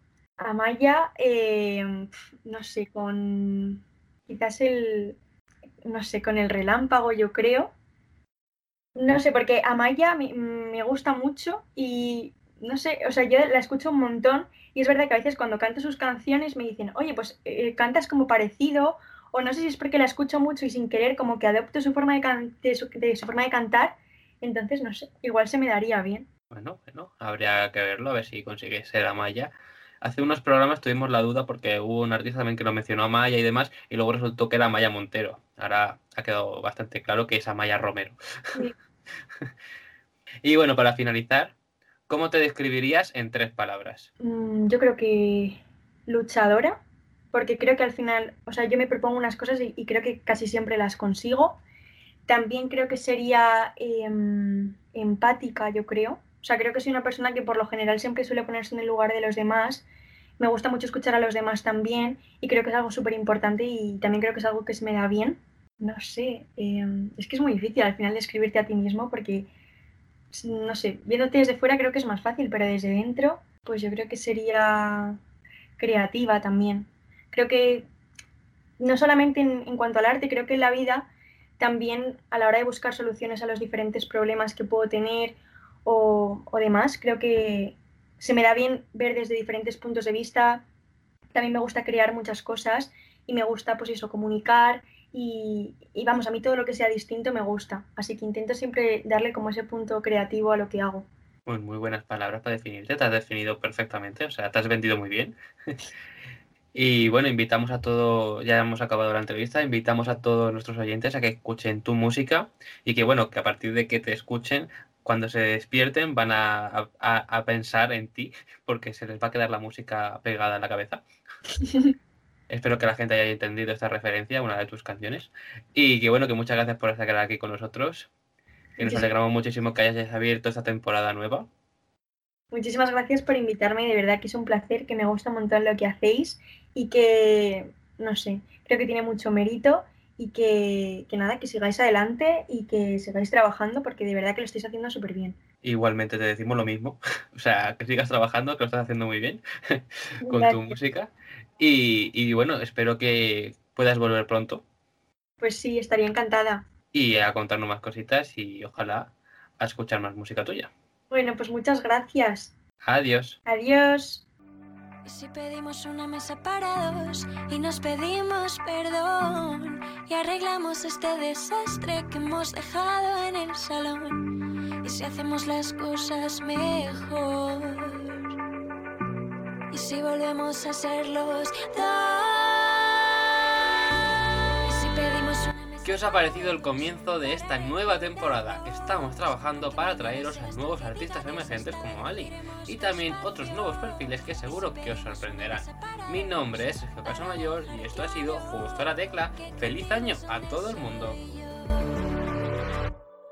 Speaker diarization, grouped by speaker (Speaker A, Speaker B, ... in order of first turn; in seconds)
Speaker A: 0.4-5.2, 5.8-7.7, 8.9-26.3, 44.2-46.8, 47.3-51.6, 52.3-59.9, 60.4-69.5, 70.3-75.2, 75.8-77.9, 78.8-81.1, 81.6-90.6, 91.3-101.1, 121.6-121.9, 128.8-129.1, 132.5-145.4, 150.2-150.8, 155.4-156.7, 161.1-162.5, 163.4-164.2
Speaker B: 26.5-38.7, 40.4-41.5, 42.1-44.1, 101.5-105.4, 106.7-121.0, 122.5-128.1, 128.8-131.5, 145.6-154.6, 156.9-160.7, 162.8-163.4, 185.8-201.2
Speaker C: 165.0-174.2, 174.8-178.2, 179.7-183.3, 184.7-202.1